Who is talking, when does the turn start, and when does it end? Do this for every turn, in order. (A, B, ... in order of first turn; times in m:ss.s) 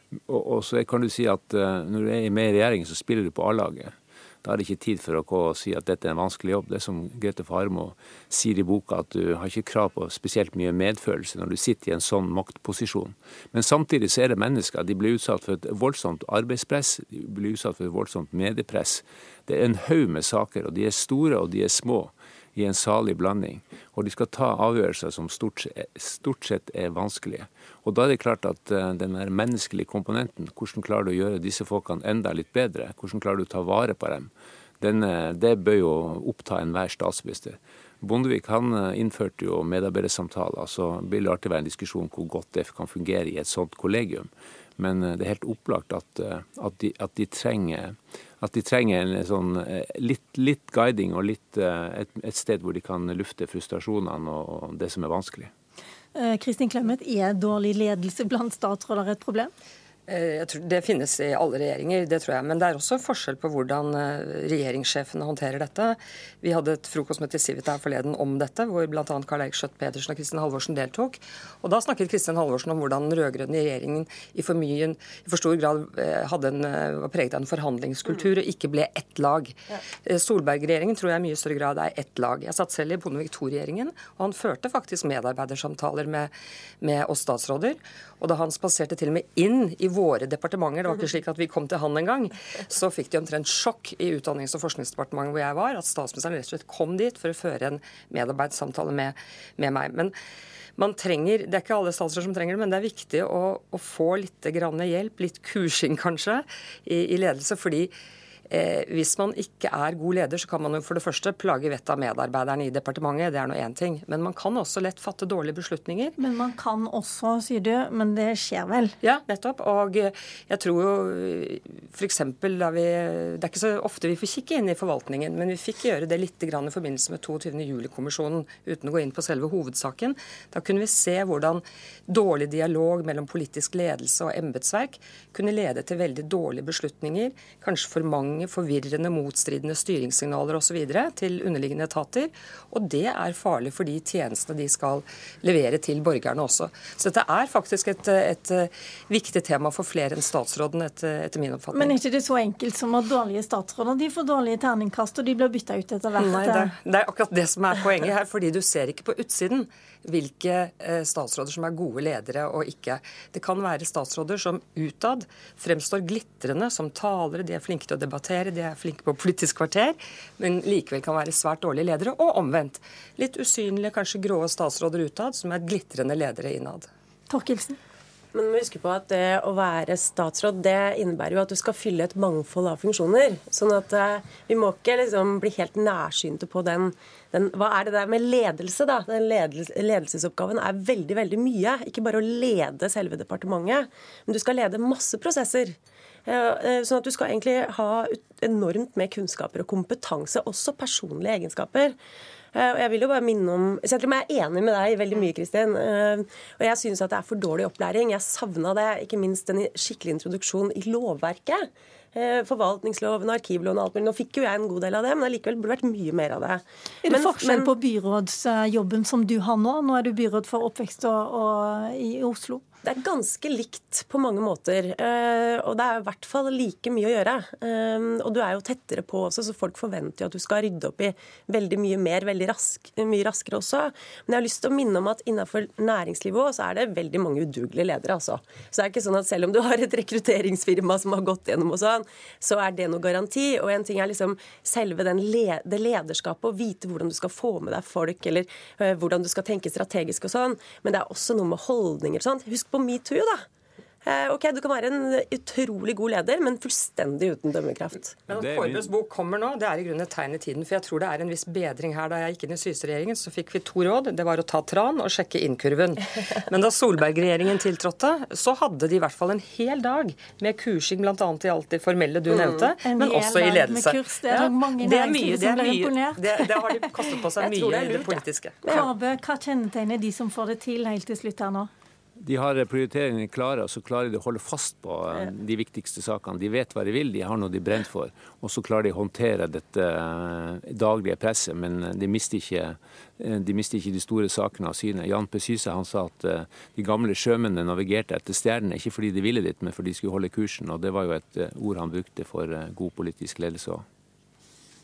0:00.3-0:55.5 A
0:56.1-0:59.5 B
1:00.1-1:40.1 C
1:40.8-1:47.9 C
1:48.5-1:56.1 C
1:56.2-1:58.9 B
1:59.0-2:32.0 C
2:31.7-2:36.7 B
2:36.2-2:56.9 C
2:57.3-2:57.8 B
2:58.3-3:22.0 D
3:22.5-3:37.7 D
3:37.0-3:42.6 B
3:42.8-4:13.4 D
4:14.0-4:18.2 D
4:18.3-4:38.8 C
4:18.3-4:18.9 A
4:32.8-4:36.8 B
4:37.4-4:38.9 D
4:38.6-4:41.7 B
4:42.2-5:03.8 A